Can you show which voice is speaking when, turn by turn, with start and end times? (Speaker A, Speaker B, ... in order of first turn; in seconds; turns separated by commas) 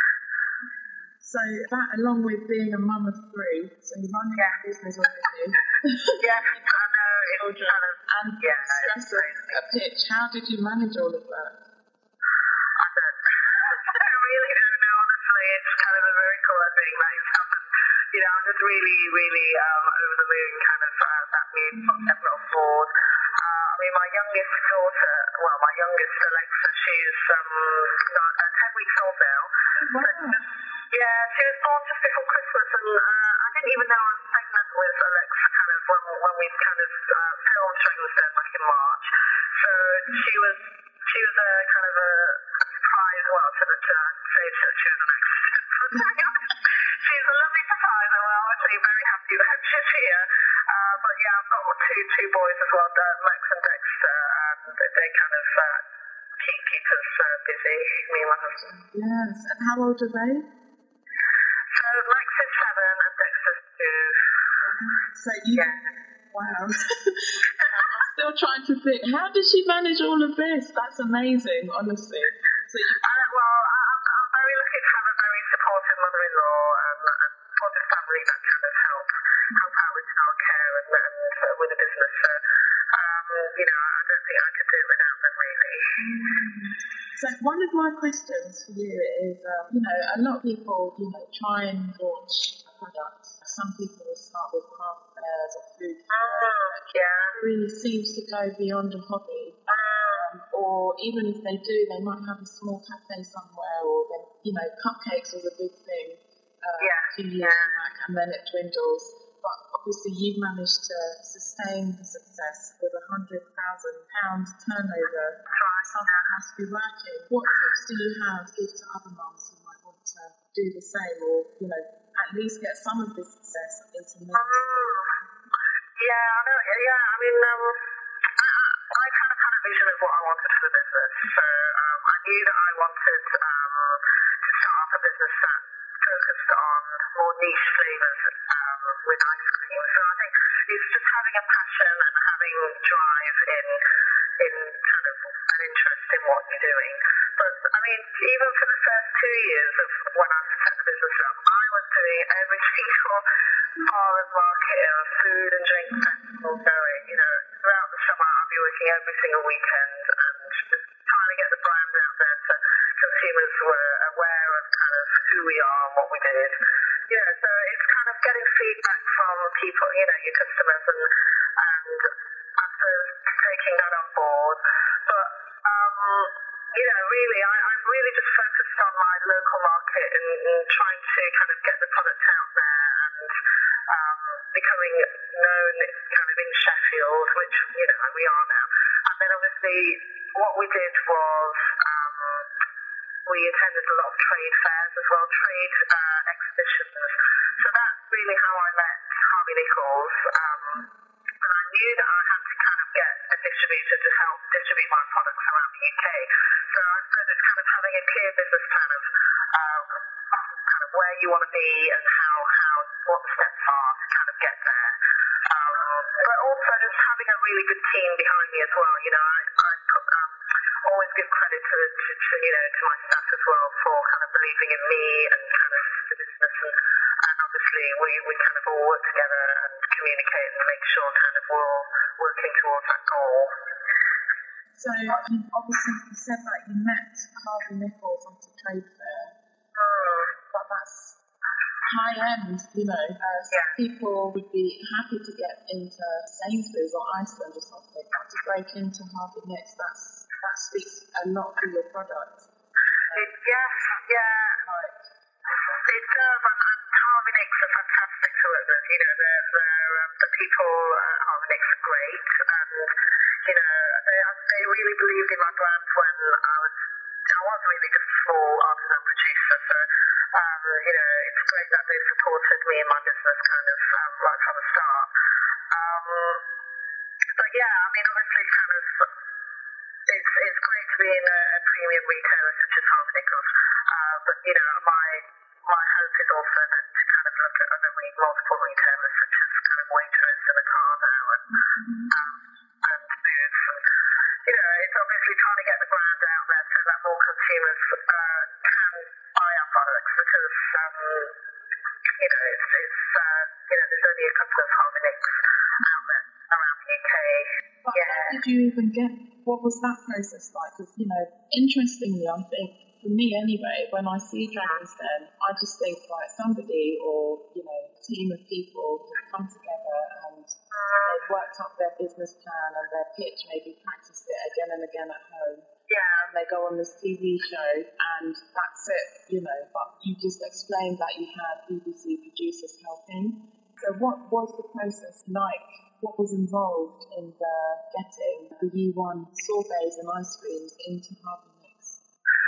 Speaker A: 1.2-11.6, Speaker B: 6.2-9.6, Speaker B: 12.8-55.8, Speaker A: 21.8-22.1, Speaker A: 29.7-30.4, Speaker B: 56.4-58.6, Speaker A: 58.1-60.5, Speaker B: 61.7-64.2, Speaker A: 64.6-65.7, Speaker A: 66.3-73.1, Speaker B: 73.0-82.4, Speaker B: 82.9-85.9, Speaker A: 86.0-125.2, Speaker B: 96.1-97.3, Speaker B: 99.7-100.3, Speaker B: 106.8-107.8, Speaker B: 115.5-116.3, Speaker B: 124.3-125.1, Speaker B: 126.0-127.8, Speaker B: 128.4-143.8, Speaker B: 144.4-153.2, Speaker B: 153.8-166.6, Speaker B: 167.1-183.3, Speaker B: 183.9-192.5, Speaker B: 193.3-200.9, Speaker B: 201.4-233.6, Speaker A: 234.7-239.4, Speaker B: 239.8-240.3, Speaker A: 239.9-241.2, Speaker A: 241.8-255.1, Speaker B: 253.1-254.6, Speaker B: 255.8-262.9, Speaker B: 263.4-275.1, Speaker B: 275.7-276.4, Speaker B: 277.3-279.1, Speaker B: 280.1-291.5, Speaker A: 291.6-292.1, Speaker B: 292.1-293.8, Speaker B: 294.4-301.4, Speaker B: 302.2-308.4, Speaker A: 307.8-325.7, Speaker B: 320.7-321.2, Speaker B: 325.9-326.3, Speaker A: 326.2-342.0